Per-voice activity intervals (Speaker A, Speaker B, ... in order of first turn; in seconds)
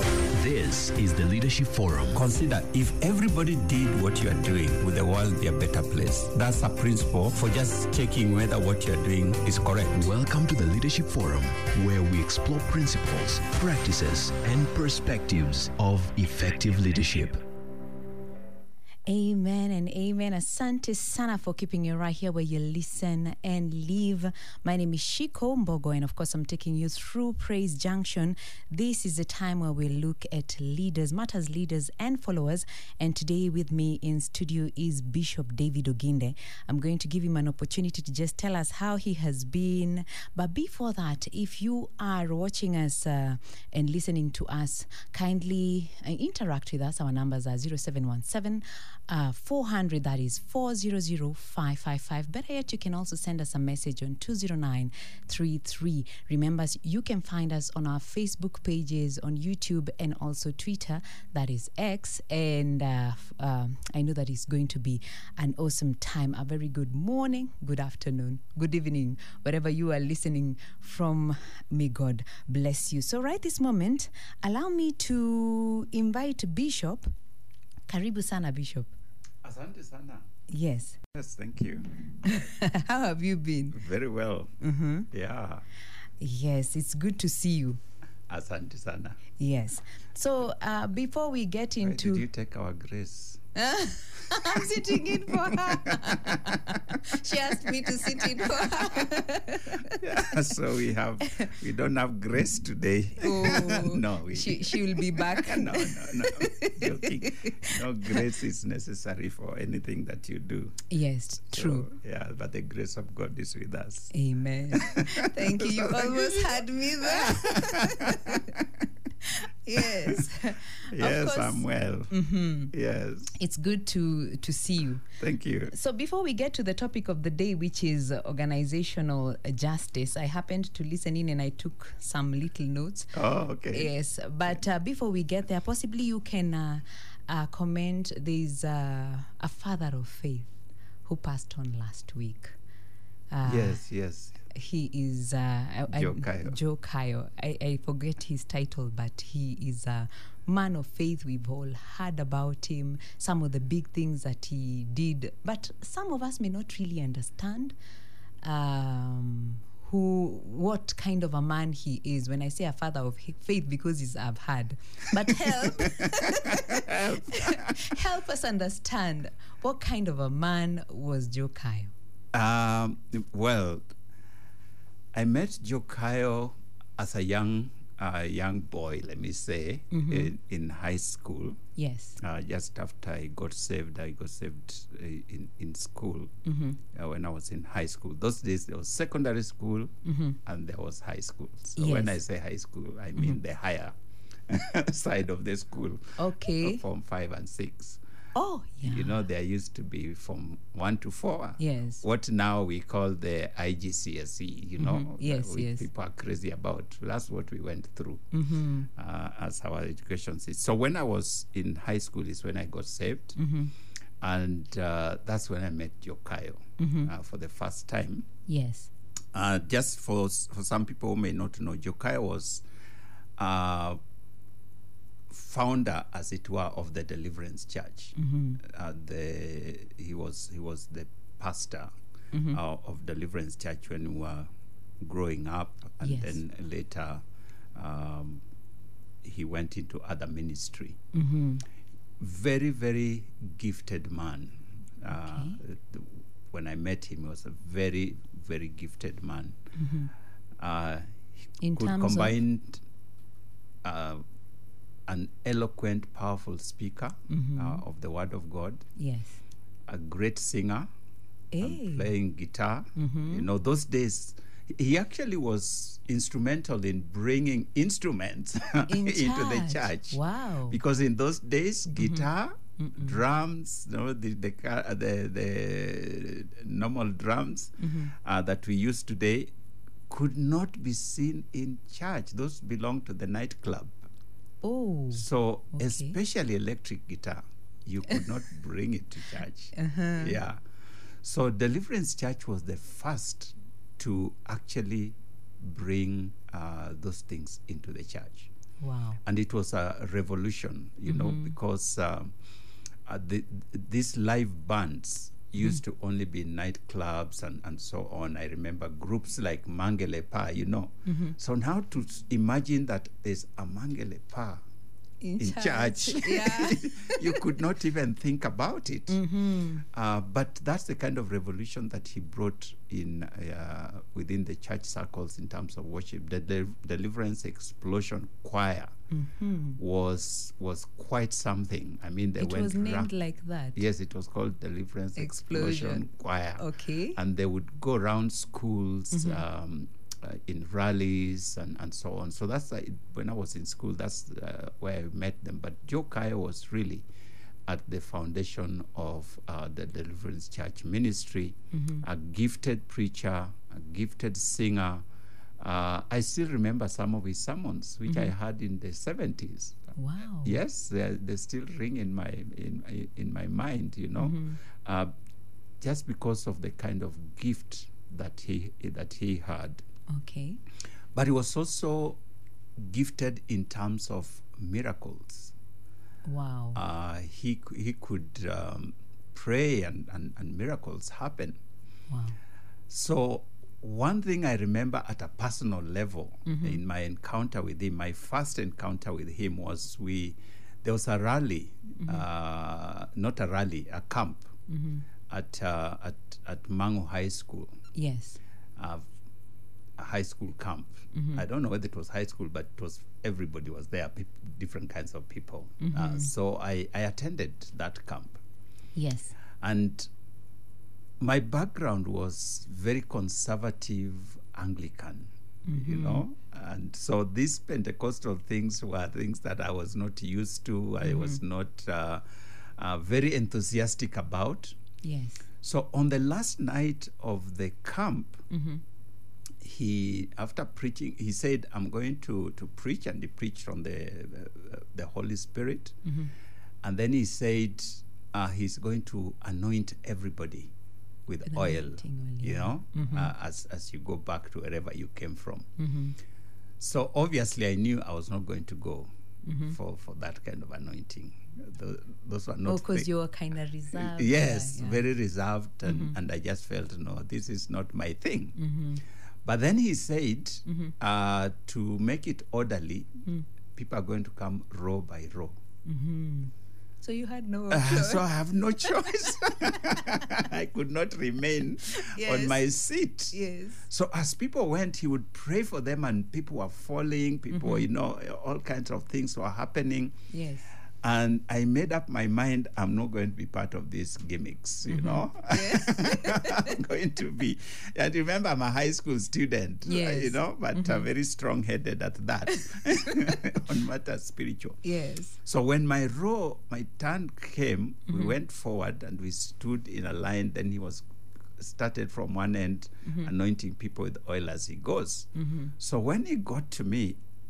Speaker A: 0.3-2.2, 9.9-17.4
Speaker B: 2.1-10.1, 79.4-80.3, 81.1-81.9, 83.7-84.5, 85.1-85.6, 88.3-89.2, 91.8-93.4, 94.2-99.1, 99.8-110.7, 111.5-114.1, 114.7-118.7, 119.8-120.3, 120.9-122.1, 122.7-123.3, 125.2-125.7, 133.1-133.9, 143.4-144.4, 145.9-146.6, 165.4-165.9, 166.4-167.9, 172.3-173.9, 175.1-181.6, 182.2-189.9, 190.4-193.9, 194.5-198.0, 198.8-208.3, 208.9-213.3, 214.2-218.3, 219.3-222.6, 223.4-224.0, 225.3-231.9, 232.5-234.5, 235.0-237.2, 237.7-238.4, 239.2-241.0, 242.2-249.6, 250.6-252.8, 253.8-254.2, 255.1-258.8, 259.9-260.9, 261.6-279.5, 280.1-284.0, 285.1-290.6, 291.2-298.5, 299.2-302.3, 303.1-314.6, 315.4-319.2, 319.8-328.9, 329.8-333.1, 333.8-347.1, 347.7-355.0, 355.6-359.9, 360.4-365.1, 365.8-369.8, 371.1-372.2, 372.8-375.5, 376.7-381.6, 382.9-394.5, 395.3-397.7, 398.8-399.1, 400.0-408.4, 409.6-410.1, 411.2-424.8, 425.6-428.4, 429.6-436.0, 436.8-440.7, 441.3-445.7, 446.8-449.1, 449.6-453.1, 453.9-458.6, 459.4-463.1, 463.7-465.6, 467.7-480.1, 481.0-494.8, 495.4-501.0, 501.6-507.2
Speaker C: 19.1-77.1, 77.9-78.9, 80.5-81.0, 82.2-83.8, 84.6-85.1, 86.2-87.8, 89.4-92.2, 93.5-100.3, 103.2-108.2, 110.9-111.9, 114.1-118.5, 119.2-122.7, 123.3-125.1, 125.7-133.1, 133.7-140.5, 141.0-142.6, 143.3-143.8, 144.5-157.7, 158.4-171.9, 179.9-180.3, 181.8-182.2, 186.4-186.8, 190.0-190.4, 191.8-192.2, 196.2-196.8, 198.3-199.2, 201.6-202.0, 204.8-205.9, 208.3-208.9, 213.3-213.7, 216.8-217.1, 218.5-218.9, 228.2-228.6, 232.3-232.6, 236.0-236.4, 241.1-241.6, 245.1-245.6, 249.8-250.1, 251.6-252.3, 257.3-257.8, 259.0-259.4, 261.5-262.1, 262.9-263.5, 268.9-270.8, 271.9-272.2, 272.8-273.2, 277.8-278.1, 284.6-286.2, 289.7-290.4, 298.8-299.2, 301.1-301.5, 311.1-311.4, 315.2-317.4, 319.1-319.8, 329.1-329.8, 332.4-333.8, 335.1-336.1, 336.6-337.2, 339.1-339.4, 351.7-352.1, 358.1-358.3, 359.9-360.6, 364.2-364.6, 370.1-370.6, 376.2-376.8, 382.1-382.4, 386.4-386.8, 392.0-392.2, 394.7-395.0, 397.9-398.4, 401.1-401.4, 405.8-406.3, 408.9-409.4, 415.6-416.2, 421.0-421.4, 425.0-425.5, 428.5-428.8, 436.0-436.3, 441.5-443.3, 445.8-446.1, 449.4-449.7, 452.6-455.0, 455.9-456.1, 458.6-459.0, 460.7-460.9, 465.8-466.5, 467.0-470.4, 471.9-472.6, 473.3-473.9, 477.5-477.9, 480.3-480.7, 484.9-486.8, 489.8-491.1, 492.6-493.4, 494.8-495.4, 498.1-498.3, 505.4-505.7